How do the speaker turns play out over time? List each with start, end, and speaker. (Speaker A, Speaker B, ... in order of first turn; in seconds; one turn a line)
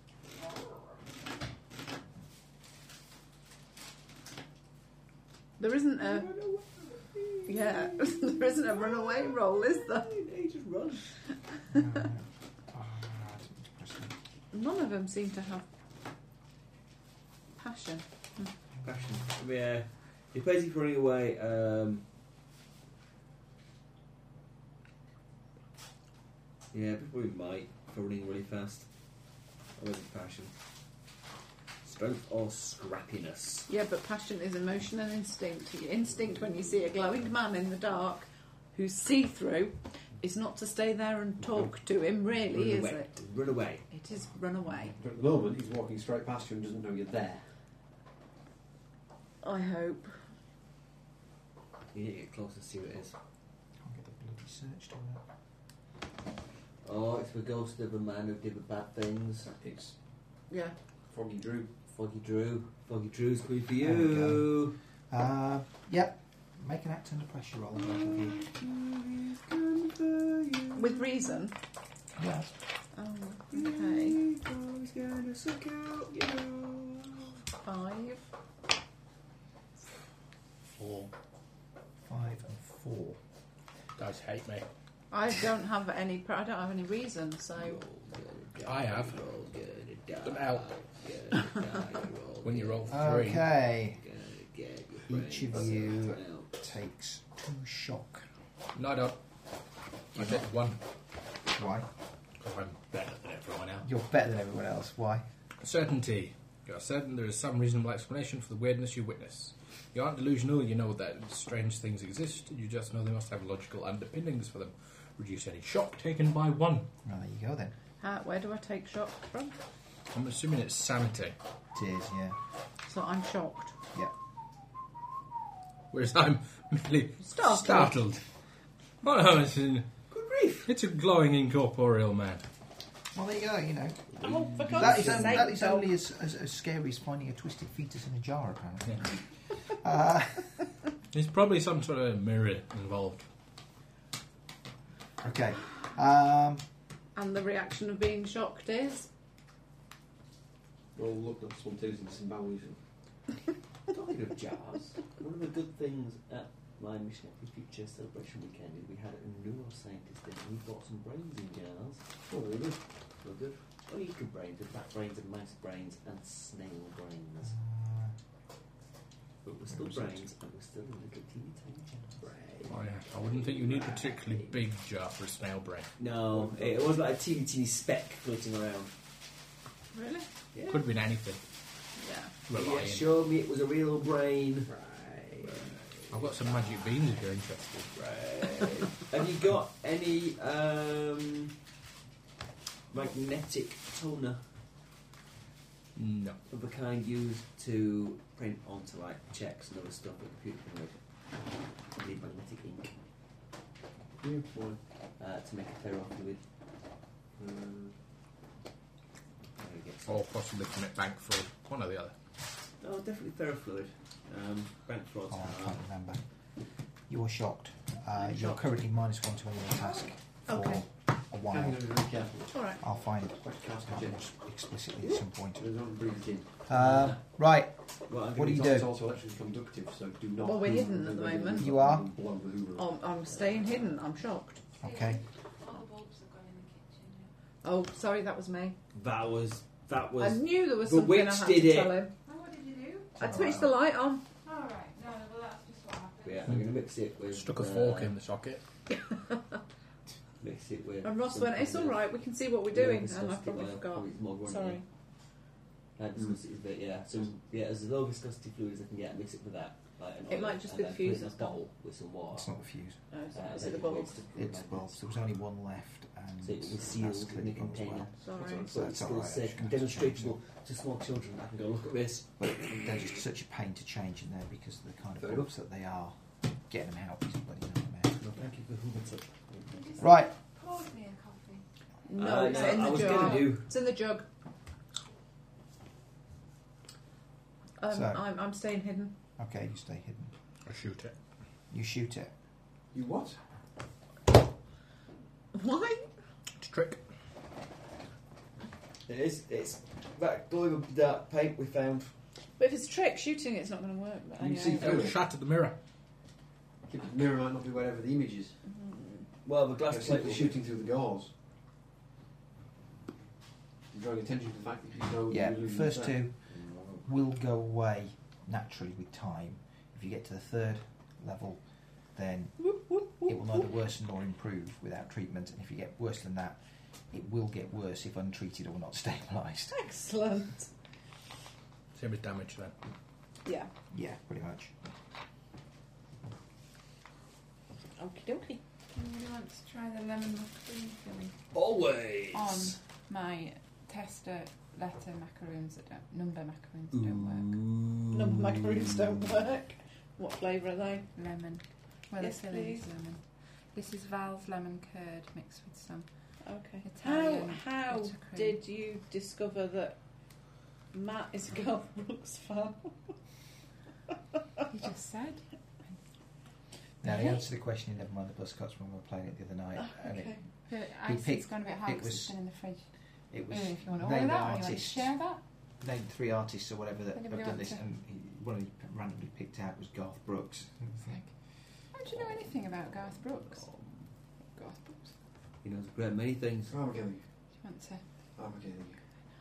Speaker A: 5.6-6.3
Speaker B: 6.0-11.1
Speaker A: 7.5-10.1
Speaker C: 11.7-14.2
Speaker A: 14.5-15.7
Speaker A: 17.6-18.5
Speaker B: 18.8-22.0
Speaker B: 26.7-28.9
Speaker B: 29.8-30.5
Speaker B: 31.8-33.7
Speaker A: 33.7-43.2
Speaker B: 42.4-43.8
Speaker A: 43.9-45.0
Speaker D: 44.9-47.5
Speaker A: 49.4-50.2
Speaker B: 51.9-53.1
Speaker C: 53.8-55.2
Speaker B: 56.8-59.5
Speaker D: 59.5-59.9
Speaker A: 60.5-60.7
Speaker D: 61.1-61.7
Speaker B: 61.9-64.8
Speaker C: 63.8-64.6
Speaker C: 65.1-68.4
Speaker B: 67.8-71.4
Speaker A: 70.7-71.5
Speaker C: 72.2-72.5
Speaker A: 72.9-74.2
Speaker B: 73.5-77.4
Speaker A: 77.5-78.3
Speaker E: 80.7-81.1
Speaker C: 82.1-83.2
Speaker E: 84.0-84.7
Speaker A: 85.1-87.8
Speaker B: 87.6-93.0
Speaker E: 88.6-89.2
Speaker E: 90.2-90.7
Speaker E: 92.4-93.5
Speaker C: 92.9-94.0
Speaker B: 94.0-96.5
Speaker C: 95.1-98.3
Speaker E: 98.7-99.2
Speaker E: 100.1-100.8
Speaker C: 100.2-100.4
Speaker C: 101.5-101.9
Speaker E: 102.4-103.9
Speaker C: 103.8-105.2
Speaker E: 105.6-116.9
Speaker C: 117.0-117.7
Speaker A: 118.0-119.6
Speaker E: 120.1-121.3
Speaker C: 121.7-122.4
Speaker A: 122.9-123.8
Speaker E: 125.9-128.2
Speaker A: 127.2-128.0
Speaker E: 129.0-129.9
Speaker B: 130.1-130.7
Speaker E: 130.7-132.4
Speaker C: 133.1-134.1
Speaker B: 134.1-135.5
Speaker A: 134.2-135.9
Speaker C: 134.7-140.6
Speaker E: 141.1-143.3
Speaker C: 145.2-146.6
Speaker A: 147.2-149.1
Speaker D: 150.9-152.8
Speaker B: 153.9-162.1
Speaker D: 162.2-162.8
Speaker B: 163.2-167.6
Speaker C: 167.4-168.2
Speaker B: 169.4-174.5
Speaker C: 169.8-170.2
Speaker E: 172.7-175.9
Speaker B: 176.0-178.9
Speaker D: 176.3-176.9
Speaker A: 179.9-180.3
Speaker B: 180.5-180.8
Speaker E: 180.7-181.4
Speaker A: 182.0-182.3
Speaker E: 182.5-183.1
Speaker B: 182.5-186.0
Speaker E: 186.1-187.9
Speaker B: 187.9-191.5
Speaker B: 192.9-194.4
Speaker E: 195.9-196.4
Speaker B: 196.5-201.0
Speaker B: 202.0-202.9
Speaker D: 204.2-204.8
Speaker B: 205.2-206.4
Speaker D: 207.3-207.9
Speaker B: 209.6-210.2
Speaker E: 210.1-212.1
Speaker B: 212.8-215.8
Speaker C: 215.3-216.2
Speaker C: 217.1-221.8
Speaker A: 218.2-218.6
Speaker A: 220.4-220.8
Speaker D: 221.5-222.8
Speaker A: 222.5-222.8
Speaker C: 222.8-225.7
Speaker D: 223.4-224.2
Speaker D: 225.6-226.5
Speaker C: 226.7-227.8
Speaker B: 226.7-227.2
Speaker B: 228.1-228.8
Speaker C: 228.3-228.9
Speaker D: 228.4-232.9
Speaker A: 230.4-231.8
Speaker C: 231.6-232.1
Speaker A: 232.8-234.8
Speaker B: 233.3-233.8
Speaker C: 234.8-235.2
Speaker F: 234.8-237.3
Speaker A: 237.6-238.8
Speaker B: 238.9-242.0
Speaker A: 240.2-242.1
Speaker F: 242.2-243.2
Speaker A: 243.2-244.3
Speaker C: 243.2-243.8
Speaker F: 244.4-246.5
Speaker B: 246.2-248.1
Speaker E: 247.3-248.6
Speaker B: 250.4-252.1
Speaker A: 251.0-254.8
Speaker B: 252.7-254.8
Speaker B: 256.0-262.5
Speaker A: 260.3-261.6
Speaker C: 262.3-263.0
Speaker A: 263.1-264.2
Speaker B: 263.3-265.0
Speaker C: 264.3-270.4
Speaker B: 266.4-272.8
Speaker A: 268.2-268.7
Speaker C: 272.4-278.2
Speaker B: 278.2-280.0
Speaker F: 279.7-281.6
Speaker C: 280.0-280.3
Speaker A: 282.1-284.2
Speaker B: 282.1-283.7
Speaker A: 287.8-289.2
Speaker C: 287.9-288.2
Speaker C: 289.4-290.3
Speaker E: 290.6-291.1
Speaker C: 291.7-292.3
Speaker D: 292.9-293.4
Speaker A: 295.5-296.1
Speaker E: 296.6-297.0
Speaker B: 299.1-302.1
Speaker A: 302.6-305.1
Speaker D: 304.4-305.2
Speaker E: 304.8-305.8
Speaker D: 306.9-308.6
Speaker B: 309.4-310.6
Speaker D: 309.9-311.3
Speaker D: 313.9-316.2
Speaker C: 315.3-316.4
Speaker B: 316.5-317.1
Speaker C: 317.0-321.6
Speaker C: 322.1-322.7
Speaker A: 322.6-323.4
Speaker C: 323.2-326.6
Speaker C: 327.1-329.8
Speaker A: 329.7-330.7
Speaker E: 331.9-332.8
Speaker A: 333.4-333.7
Speaker C: 333.9-334.8
Speaker A: 338.0-338.6
Speaker F: 338.9-341.4
Speaker B: 341.5-342.8
Speaker F: 342.3-347.6
Speaker B: 346.9-349.1
Speaker A: 348.1-351.1
Speaker F: 351.1-353.2
Speaker A: 352.2-352.9
Speaker F: 353.7-358.6
Speaker A: 356.4-360.0
Speaker A: 360.9-363.1
Speaker F: 364.7-366.0
Speaker C: 367.0-370.4
Speaker A: 367.0-367.3
Speaker A: 369.9-370.4
Speaker F: 370.7-372.8
Speaker C: 371.0-372.4
Speaker C: 373.3-375.1
Speaker F: 373.5-375.4
Speaker C: 375.8-381.2
Speaker F: 377.1-377.8
Speaker F: 381.0-381.3
Speaker F: 381.9-383.7
Speaker F: 384.5-385.1
Speaker B: 385.6-386.8
Speaker D: 386.7-387.2
Speaker F: 387.6-388.0
Speaker D: 388.4-389.0